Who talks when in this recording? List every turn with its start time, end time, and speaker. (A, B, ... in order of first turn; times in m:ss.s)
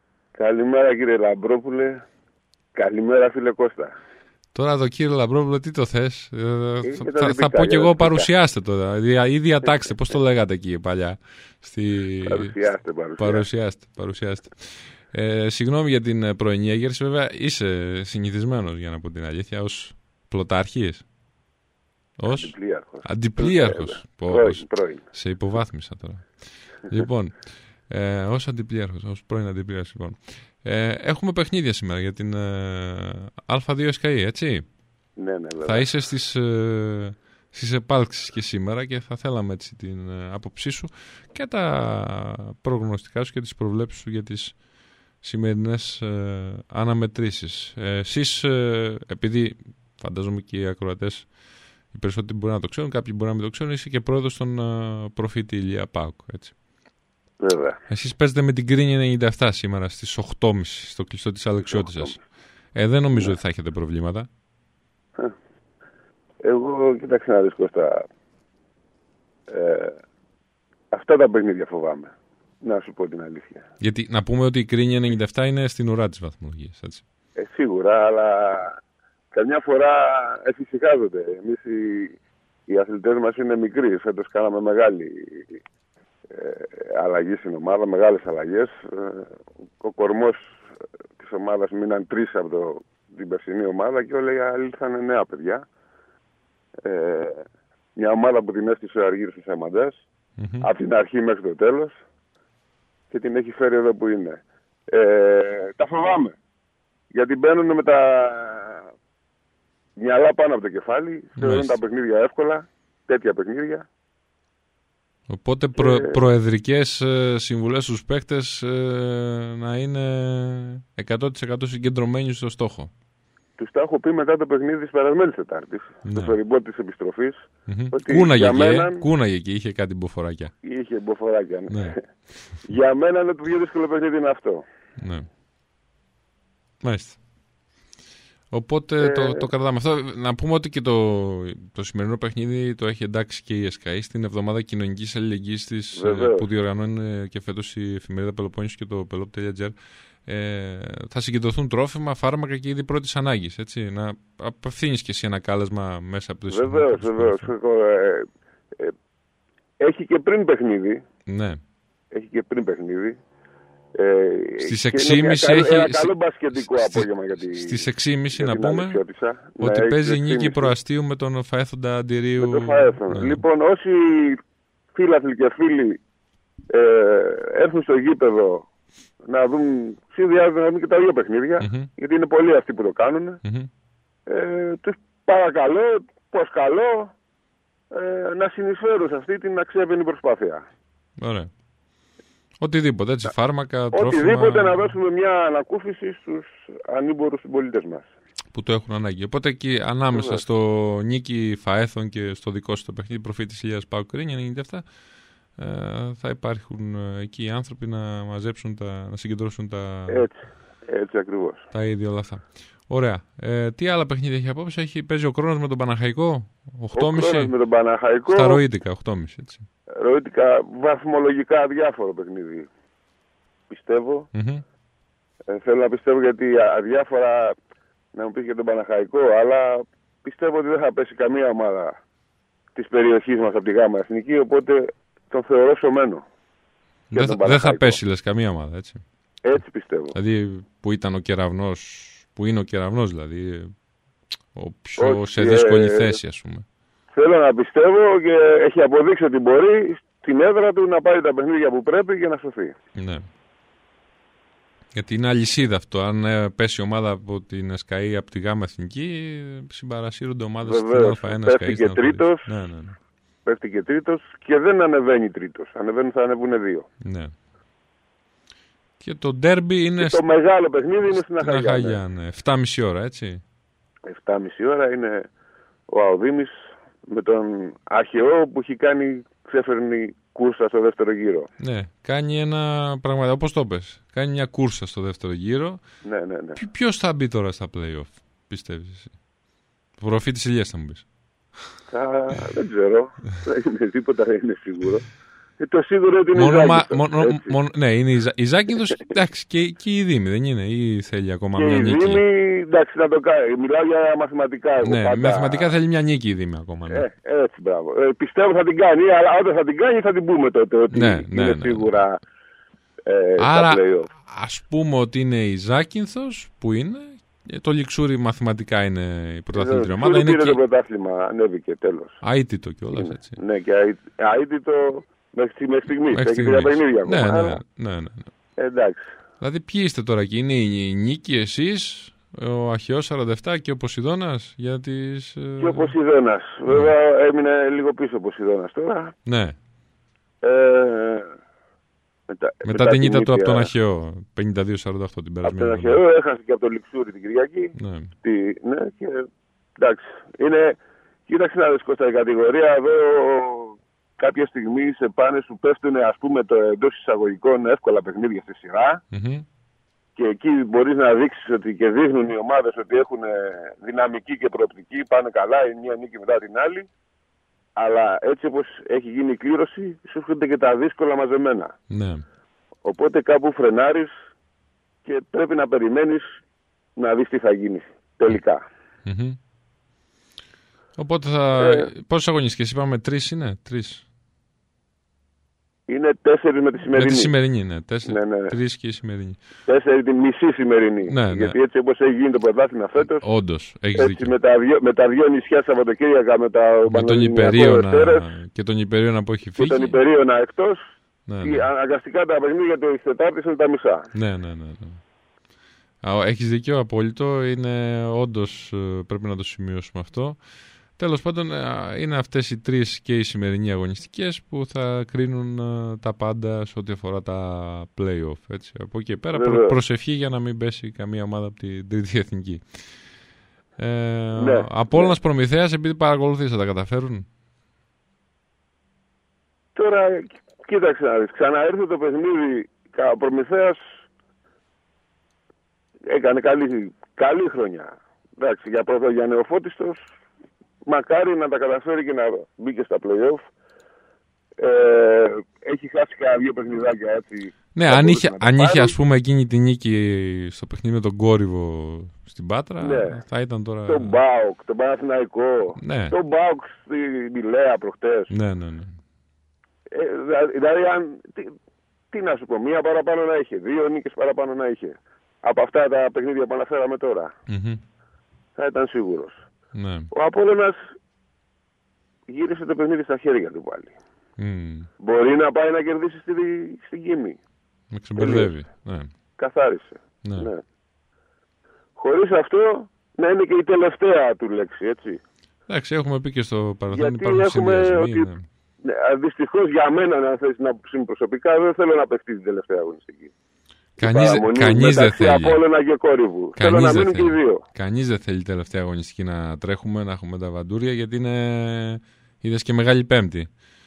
0:00.3-0:02.0 A
0:02.7-0:04.0 A
0:04.5-0:12.5 B
0:06.8-0:08.3 A
0:12.2-0:13.4 A
0:13.2-0:21.0 B
0:22.2-0:22.5 B
0:22.3-0:25.0 A
0:23.0-0:26.3 B
0:26.8-0:27.3 B
0:27.9-0:34.6 B
0:35.2-0:35.9 A
0:35.6-0:44.6 B
0:45.2-0:51.3 B
0:51.9-0:56.5 B
0:57.4-0:57.8 A
0:57.9-1:02.2 B
1:01.7-1:02.2 A
1:02.7-1:04.3 B
1:03.1-1:03.4 A
1:06.4-1:08.0 A
1:09.5-1:10.0 A
1:10.9-1:13.6 A
1:13.8-1:17.0 B
1:17.4-1:18.8 A
1:19.3-1:25.6 A
1:26.3-1:30.6 A
1:31.2-1:35.6 A
1:36.8-1:37.4 A
1:38.0-1:40.0 A
1:40.4-1:40.7 B
1:40.6-1:41.9 A
1:43.1-1:44.4 A
1:44.9-1:46.4 A
1:47.1-1:48.9 A
1:50.0-1:53.8 A
1:51.4-1:51.8 B
1:55.3-2:02.9 B
1:55.8-1:56.2 A
2:03.6-2:09.0 A
2:06.0-2:06.3 B
2:07.7-2:10.5 B
2:10.6-2:12.0 A
2:12.6-2:14.6 A
2:15.0-2:15.3 B
2:16.8-2:17.2 B
2:18.5-2:29.7 B
2:19.0-2:19.5 A
2:25.9-2:26.4 A
2:30.2-2:37.5 B
2:36.5-2:38.9 A
2:39.8-2:41.0 A
2:41.3-2:41.6 B
2:42.1-2:43.2 A
2:43.9-2:50.7 A
2:44.6-2:49.0 B
2:49.6-2:53.4 B
2:52.4-2:54.4 A
2:54.9-2:56.0 A
2:56.7-2:58.6 A
2:59.2-3:03.4 A
3:01.6-3:01.9 B
3:03.4-3:03.7 B
3:04.3-3:07.1 A
3:07.9-3:10.6 A
3:11.2-3:11.5 B
3:12.6-3:14.9 B
3:13.9-3:18.1 A
3:18.5-3:24.8 B
3:20.1-3:20.4 A
3:25.6-3:30.3 B
3:30.1-3:31.7 A
3:31.7-3:37.5 B
3:36.9-3:38.6 A
3:38.3-3:39.6 B
3:40.0-3:42.7 A
3:43.7-3:44.3 A
3:44.3-3:44.6 B
3:45.5-3:47.5 A
3:48.1-3:51.9 A
3:52.7-3:56.2 A
3:57.1-3:59.0 B
3:57.1-3:58.0 A
3:59.4-4:00.2 A
4:00.1-4:03.7 B
4:04.5-4:06.6 B
4:05.0-4:06.2 A
4:07.1-4:12.7 A
4:13.0-4:13.2 B
4:14.9-4:23.0 B
4:20.6-4:22.5 A
4:23.4-4:26.9 A
4:27.0-4:27.3 B
4:29.0-4:30.2 B
4:30.0-4:32.0 A
4:31.1-4:33.4 B
4:34.1-4:35.3 A
4:35.9-4:41.5 A
4:41.6-4:45.8 B
4:46.0-4:46.6 A
4:46.6-4:49.1 B
4:50.0-4:51.0 B
4:51.9-4:55.1 A
4:55.6-4:57.6 A
4:56.3-5:02.2 B
5:01.6-5:05.8 A
5:04.8-5:07.0 B
5:06.9-5:12.2 A
5:10.9-5:12.0 B
5:13.0-5:14.1 A
5:13.4-5:20.6 B
5:19.5-5:22.2 A
5:22.2-5:23.3 B
5:22.9-5:27.6 A
5:26.1-5:28.3 B
5:28.6-5:29.1 A
5:29.4-5:35.9 B
5:35.6-5:39.1 A
5:39.2-5:39.6 B
5:40.4-5:41.3 A
5:42.3-5:43.7 A
5:42.6-5:46.0 B
5:45.4-5:49.2 A
5:47.8-5:48.1 B
5:49.8-5:59.0 A
5:59.1-5:59.4 B
6:00.2-6:06.9 A
6:07.8-6:11.7 A
6:11.9-6:12.2 B
6:12.8-6:14.1 A
6:15.0-6:16.3 A
6:17.0-6:18.6 A
6:19.0-6:19.4 B
6:21.0-6:24.0 B
6:21.6-6:21.9 A
6:25.9-6:27.3 A
6:26.9-6:29.4 B
6:28.0-6:28.6 A
6:29.6-6:33.3 A
6:31.1-6:31.5 B
6:33.2-6:34.3 B
6:33.9-6:38.3 A
6:36.8-6:40.0 B
6:39.6-6:40.8 A
6:41.3-6:41.6 B
6:41.4-6:44.1 A
6:44.1-6:45.0 B
6:46.0-6:50.4 B
6:51.0-7:02.6 B
6:59.3-6:59.8 A
7:03.8-7:07.2 B
7:04.3-7:05.2 A
7:09.7-7:13.8 A
7:16.1-7:20.0 A
7:20.8-7:23.4 A
7:24.6-7:28.9 A
7:27.7-7:34.2 B
7:32.8-7:33.2 A
7:33.8-7:38.3 A
7:35.8-7:36.1 B
7:38.3-7:39.0 B
7:39.9-7:41.5 A
7:42.1-7:47.3 A
7:47.5-7:47.8 B
7:48.6-7:49.4 A
7:49.7-7:50.1 B
7:50.1-7:50.8 A
7:52.3-7:53.9 A
7:54.4-7:54.9 B
7:55.0-7:57.4 A
7:57.9-7:59.1 B
7:58.2-7:58.5 A
7:59.4-8:00.6 A
8:00.2-8:00.5 B
8:02.0-8:05.2 A
8:05.7-8:08.4 B
8:06.9-8:08.3 A
8:08.8-8:13.3 A
8:14.0-8:15.6 B
8:14.0-8:17.6 A
8:16.6-8:23.5 B